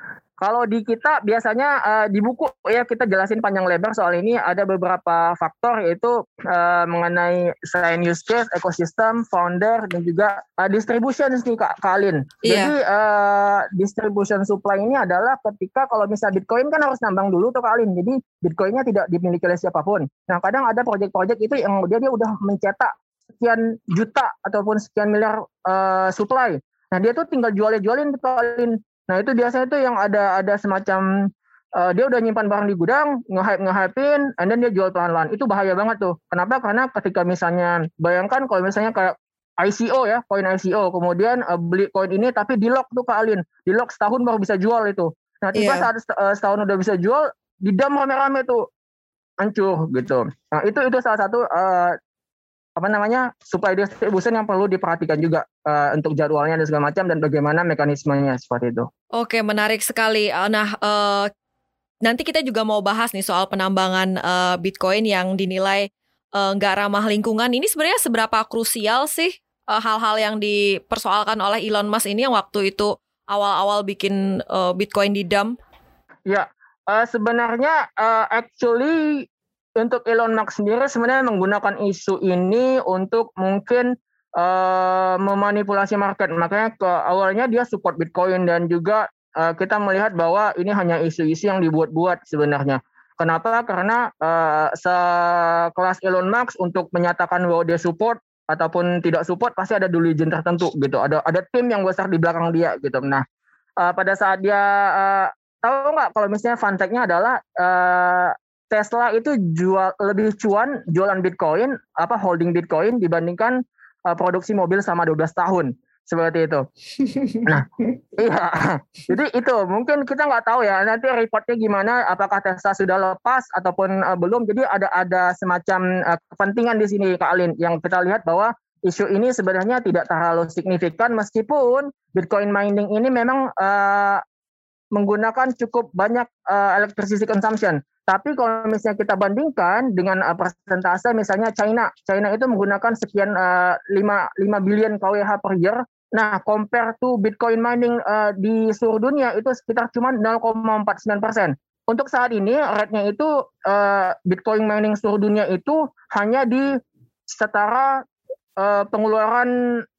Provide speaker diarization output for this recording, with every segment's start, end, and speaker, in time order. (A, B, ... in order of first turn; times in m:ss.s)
0:00.4-0:31.1 A
0:12.4-0:12.7 B
0:31.8-0:48.6 A
0:45.5-0:45.9 B
0:49.4-0:52.0 A
0:52.8-0:58.9 A
0:59.2-1:01.3 B
1:02.0-1:15.6 B
1:16.3-1:19.2 A
1:19.8-1:43.2 A
1:43.8-1:53.6 A
1:54.1-1:56.6 A
1:57.1-1:57.4 B
1:58.2-2:14.2 A
2:15.0-2:36.8 A
2:37.3-2:38.0 A
2:38.6-2:39.5 A